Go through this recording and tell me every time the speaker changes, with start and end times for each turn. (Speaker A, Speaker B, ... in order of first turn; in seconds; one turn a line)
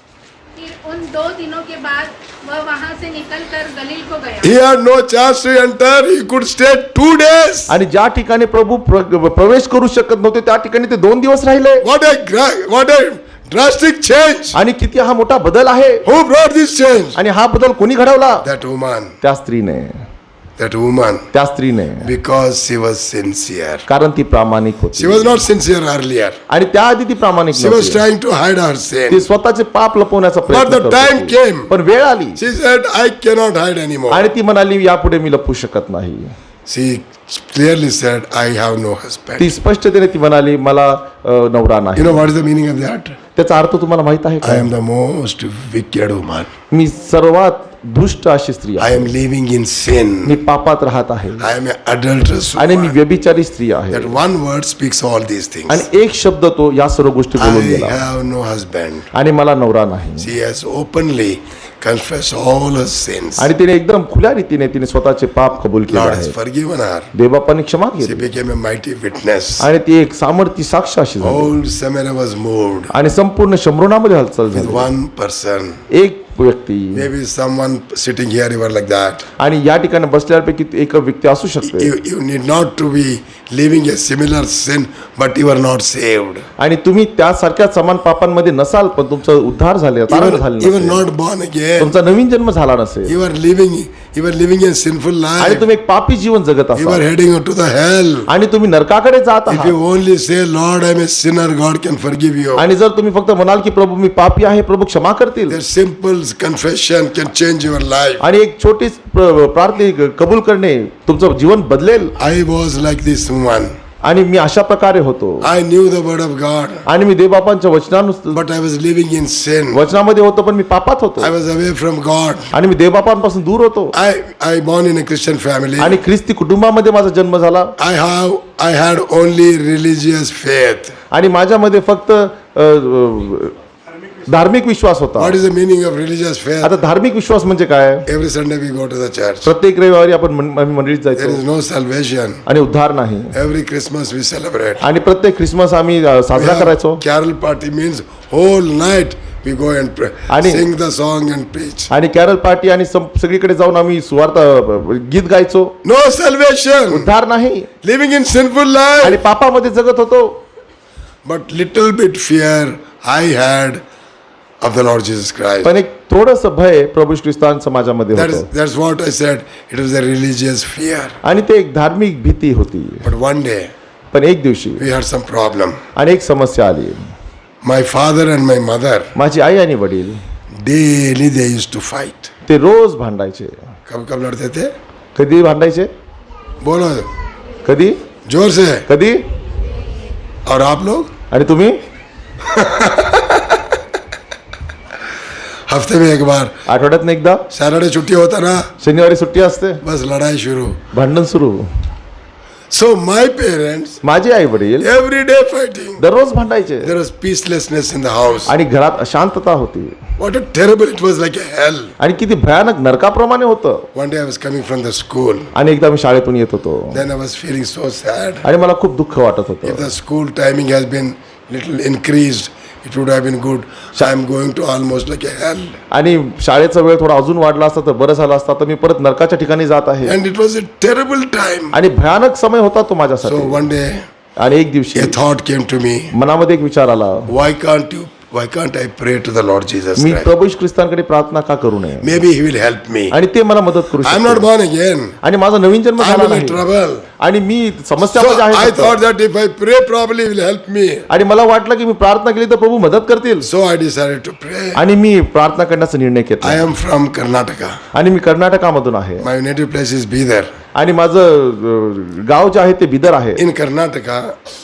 Speaker A: 0.6-4.5
Speaker B: 4.4-7.8
Speaker C: 7.7-11.9
Speaker B: 11.8-14.6
Speaker C: 14.6-16.1
Speaker B: 16.0-17.2
Speaker C: 17.2-18.5
Speaker B: 18.4-19.2
Speaker C: 19.2-20.0
Speaker B: 20.6-21.3
Speaker C: 21.3-22.1
Speaker B: 22.0-23.9
Speaker C: 23.9-25.4
Speaker B: 24.9-26.4
Speaker C: 26.5-28.1
Speaker B: 27.5-29.3
Speaker C: 29.1-32.4
Speaker B: 30.5-31.7
Speaker B: 32.4-34.3
Speaker C: 34.1-36.3
Speaker B: 36.7-39.5
Speaker C: 39.4-42.3
Speaker B: 42.0-43.2
Speaker C: 43.4-44.7
Speaker B: 44.4-46.5
Speaker C: 46.7-49.1
Speaker B: 48.8-50.4
Speaker C: 50.2-51.5
Speaker B: 51.4-53.0
Speaker C: 52.6-54.2
Speaker B: 53.9-55.9
Speaker C: 55.7-58.1
Speaker B: 57.4-59.1
Speaker C: 59.1-60.3
Speaker B: 60.2-63.5
Speaker C: 63.4-66.4
Speaker B: 65.9-67.1
Speaker C: 67.2-68.3
Speaker B: 68.0-69.7
Speaker C: 69.6-71.5
Speaker B: 71.2-72.9
Speaker C: 72.9-74.9
Speaker B: 74.5-75.8
Speaker C: 75.9-77.1
Speaker B: 77.0-79.3
Speaker C: 79.4-81.9
Speaker B: 81.6-86.5
Speaker C: 86.6-91.0
Speaker B: 90.1-91.9
Speaker C: 91.8-93.2
Speaker B: 93.1-95.7
Speaker C: 95.4-97.0
Speaker B: 96.8-98.3
Speaker C: 98.3-99.8
Speaker B: 99.5-102.7
Speaker C: 102.6-105.6
Speaker B: 105.5-108.2
Speaker C: 108.2-112.2
Speaker B: 112.2-113.7
Speaker C: 114.0-115.5
Speaker B: 115.4-116.9
Speaker C: 116.9-118.4
Speaker B: 118.3-119.8
Speaker C: 119.7-121.3
Speaker B: 121.2-122.5
Speaker C: 122.5-124.0
Speaker B: 123.9-126.0
Speaker C: 125.8-127.8
Speaker B: 127.8-131.0
Speaker C: 131.1-133.6
Speaker C: 134.3-135.4
Speaker B: 135.2-136.8
Speaker C: 136.6-138.1
Speaker B: 138.1-139.5
Speaker C: 139.4-141.4
Speaker B: 141.2-142.4
Speaker C: 142.5-143.3
Speaker B: 143.3-144.9
Speaker C: 144.8-147.0
Speaker B: 146.3-151.9
Speaker C: 150.3-150.7
Speaker C: 151.9-155.8
Speaker B: 155.8-157.1
Speaker C: 156.9-157.7
Speaker B: 157.8-159.2
Speaker C: 159.0-160.4
Speaker B: 161.2-163.8
Speaker B: 164.6-165.7
Speaker C: 165.6-168.5
Speaker B: 168.1-171.2
Speaker C: 171.2-173.1
Speaker B: 173.0-173.7
Speaker C: 174.1-174.9
Speaker B: 174.8-175.8
Speaker C: 176.0-177.1
Speaker B: 177.6-179.1
Speaker C: 179.2-180.2
Speaker B: 180.6-182.3
Speaker C: 182.5-183.6
Speaker B: 183.9-184.7
Speaker C: 185.2-185.9
Speaker B: 186.6-187.1
Speaker C: 187.7-188.0
Speaker B: 188.2-188.9
Speaker C: 188.9-189.2
Speaker B: 190.5-191.1
Speaker C: 191.3-191.8
Speaker B: 192.4-193.6
Speaker B: 195.7-196.6
Speaker C: 196.7-197.4
Speaker B: 197.5-198.7
Speaker C: 198.8-199.8
Speaker B: 199.8-200.8
Speaker C: 200.9-201.7
Speaker B: 202.7-204.0
Speaker C: 204.0-204.9
Speaker B: 204.8-206.0
Speaker C: 206.0-207.0
Speaker B: 206.8-208.6
Speaker C: 208.5-210.0
Speaker B: 210.2-211.9
Speaker C: 212.0-213.9
Speaker B: 213.9-215.5
Speaker C: 215.6-217.0
Speaker B: 216.9-218.5
Speaker C: 218.4-219.9
Speaker B: 219.6-225.8
Speaker C: 225.9-230.2
Speaker B: 230.1-231.8
Speaker C: 231.7-233.7
Speaker B: 233.2-234.1
Speaker C: 234.4-235.2
Speaker B: 234.9-236.1
Speaker C: 236.1-237.3
Speaker B: 237.3-240.3
Speaker C: 240.0-242.2
Speaker B: 242.0-243.2
Speaker C: 243.1-244.5
Speaker B: 244.0-245.2
Speaker C: 245.2-246.6
Speaker B: 246.0-247.1
Speaker C: 247.2-249.0
Speaker B: 248.1-251.1
Speaker C: 251.1-253.5
Speaker B: 253.4-254.8
Speaker C: 254.8-256.6
Speaker B: 256.4-257.8
Speaker C: 257.9-259.3
Speaker B: 259.2-260.5
Speaker C: 260.8-263.4
Speaker B: 263.4-264.4